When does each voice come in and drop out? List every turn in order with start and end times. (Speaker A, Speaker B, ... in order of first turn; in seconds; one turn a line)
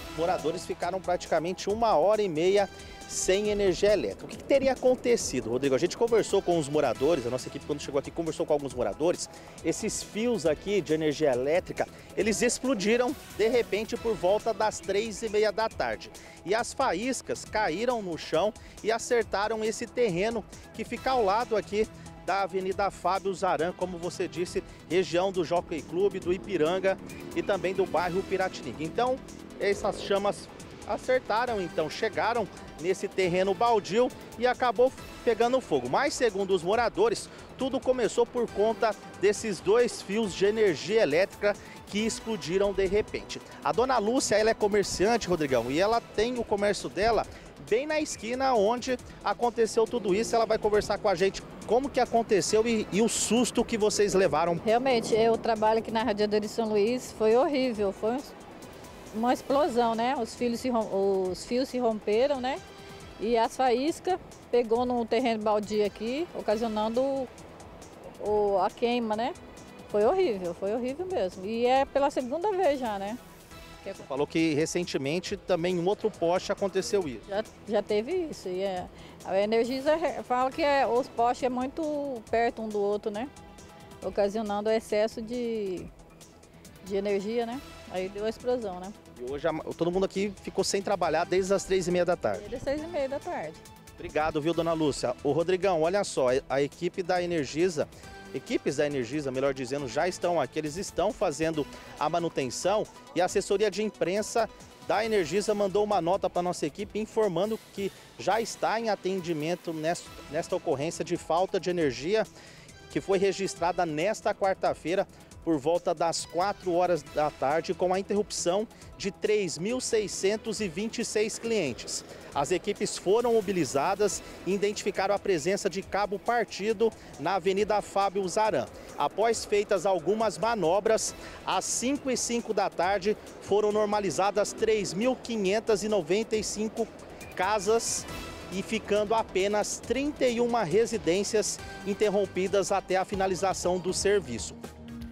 Speaker A: 0.1-54.6
Speaker B: 54.6-58.3
Speaker B: 59.1-62.6
Speaker B: 63.2-67.3
Speaker B: 68.2-69.3
Speaker B: 69.9-73.2
Speaker A: 73.9-77.2
Speaker B: 77.3-83.3
Speaker B: 84.0-85.9
Speaker B: 86.8-89.0
Speaker A: 89.2-92.4
Speaker B: 92.3-93.6
Speaker A: 94.0-112.3
Speaker A: 112.9-144.6